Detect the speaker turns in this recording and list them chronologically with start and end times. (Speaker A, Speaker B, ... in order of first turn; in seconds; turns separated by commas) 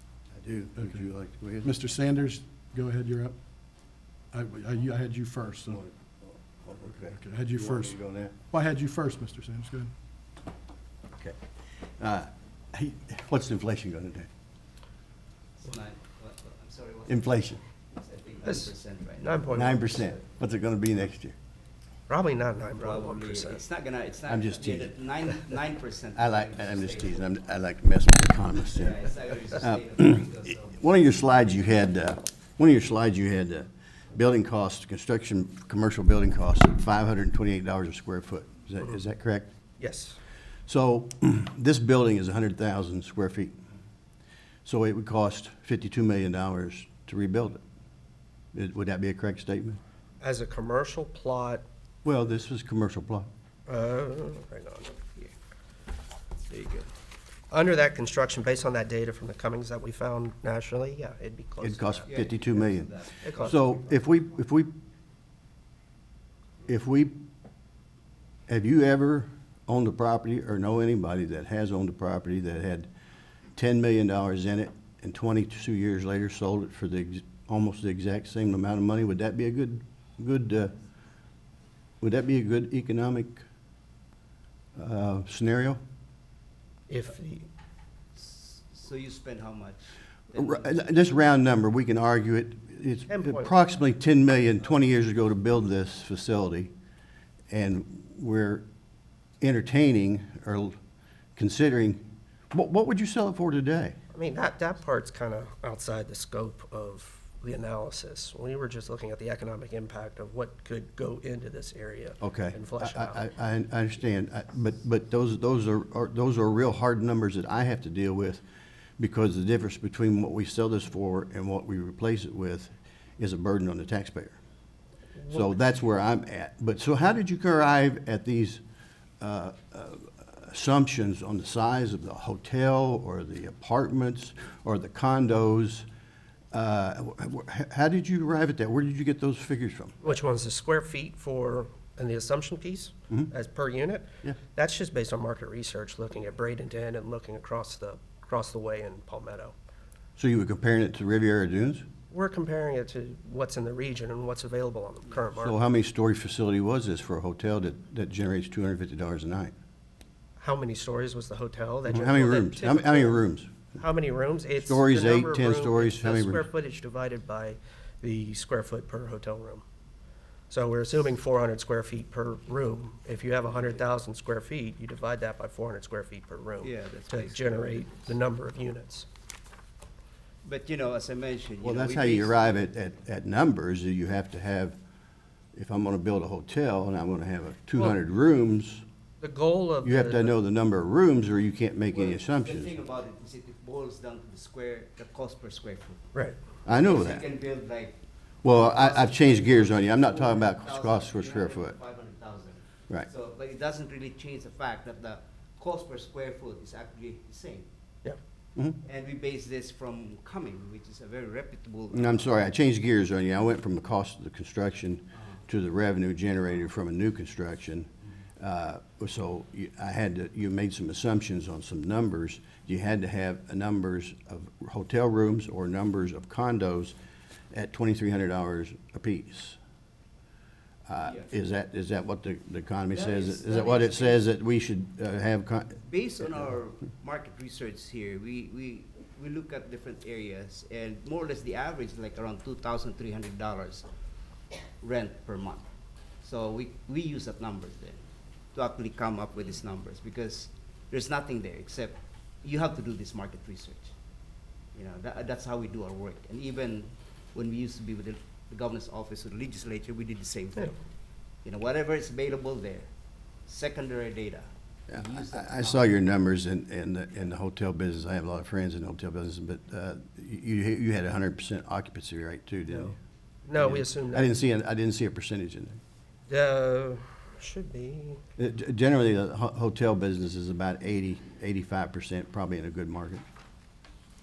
Speaker A: 0.3-1.7, Speaker B: 0.8-1.0, Speaker B: 1.6-3.4, Speaker B: 4.3-5.8, Speaker A: 5.7-8.3, Speaker B: 7.0-9.9, Speaker A: 11.2-14.3, Speaker C: 15.6-19.5, Speaker A: 17.1-17.6, Speaker D: 18.4-18.7, Speaker D: 19.2-20.0, Speaker A: 19.5-21.4, Speaker D: 22.1-23.6, Speaker C: 22.8-27.3, Speaker A: 24.3-24.9, Speaker A: 26.1-29.0, Speaker C: 28.7-30.8, Speaker A: 29.6-39.5, Speaker D: 39.8-40.2, Speaker A: 40.7-43.5, Speaker A: 44.6-47.6, Speaker A: 48.5-49.8, Speaker D: 50.2-51.6, Speaker A: 52.0-53.3, Speaker D: 53.7-55.0, Speaker C: 56.5-56.9, Speaker D: 57.5-62.2, Speaker A: 61.6-64.7, Speaker C: 62.1-63.5, Speaker D: 63.2-63.6, Speaker A: 66.7-67.2, Speaker A: 68.5-72.9, Speaker A: 73.5-80.7, Speaker A: 82.0-83.4, Speaker A: 84.8-85.8, Speaker D: 86.9-87.5, Speaker C: 88.1-90.9, Speaker A: 90.3-96.7, Speaker D: 93.1-93.5, Speaker A: 97.5-98.6, Speaker A: 99.4-100.8, Speaker A: 101.3-104.0, Speaker D: 104.1-113.2, Speaker A: 112.2-118.4, Speaker A: 119.0-124.4, Speaker D: 125.2-125.5, Speaker A: 125.3-128.6, Speaker A: 129.2-135.8, Speaker A: 136.5-139.9, Speaker D: 140.0-149.5, Speaker A: 150.2-151.8, Speaker D: 152.1-155.6, Speaker A: 155.4-159.5, Speaker D: 160.4-163.2, Speaker A: 161.9-163.7, Speaker D: 163.8-169.6, Speaker A: 164.6-166.4, Speaker D: 170.5-179.1, Speaker C: 176.6-178.1, Speaker C: 180.4-182.7, Speaker A: 181.6-184.8, Speaker A: 185.5-188.8, Speaker D: 189.2-190.3, Speaker A: 189.8-192.7, Speaker C: 191.9-196.0, Speaker A: 196.7-197.2, Speaker C: 196.7-198.0, Speaker A: 198.4-201.8, Speaker C: 198.6-207.7, Speaker C: 208.8-212.3, Speaker A: 211.9-226.9, Speaker A: 227.5-229.6, Speaker A: 230.9-235.8, Speaker C: 232.9-234.2, Speaker C: 235.8-243.9, Speaker C: 244.8-245.7, Speaker C: 246.2-248.0, Speaker C: 248.5-253.9, Speaker C: 254.7-260.8, Speaker C: 261.4-262.9, Speaker C: 263.4-265.9, Speaker A: 264.9-273.0, Speaker D: 272.7-272.9, Speaker D: 273.4-274.3, Speaker A: 273.5-275.8, Speaker D: 276.3-278.2, Speaker A: 278.4-283.2